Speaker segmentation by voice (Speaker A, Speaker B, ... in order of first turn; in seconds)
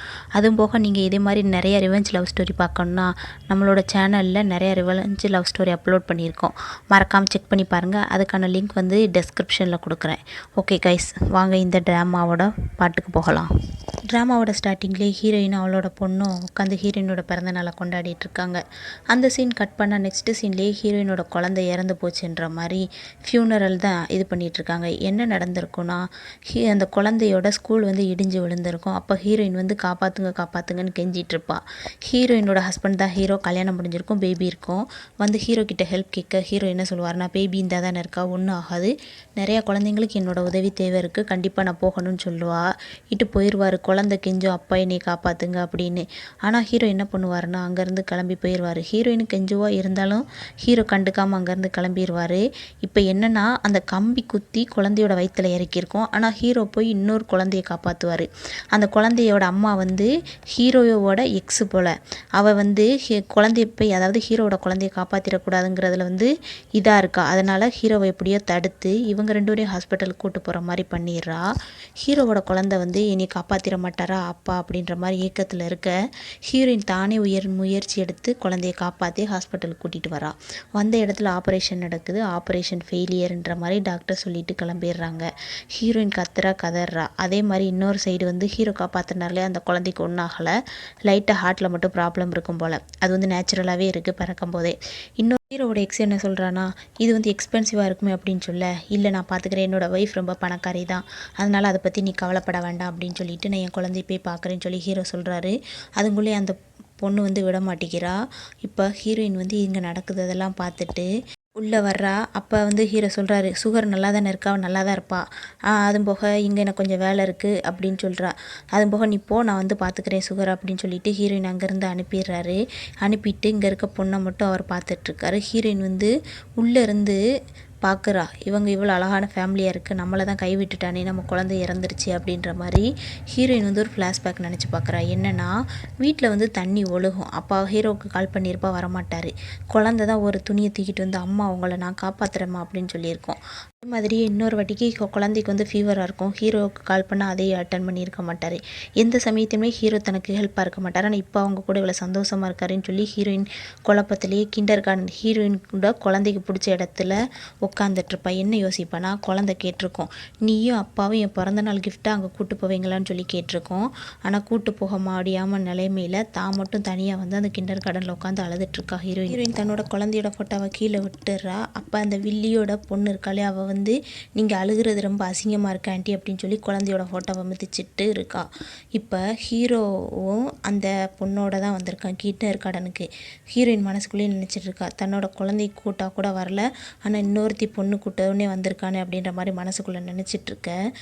Speaker A: 0.3-13.5, 14.1-18.6, 19.1-71.4, 72.0-75.9, 76.5-90.5, 91.1-111.0, 111.6-127.2, 127.8-157.1, 157.7-178.4, 179.0-190.7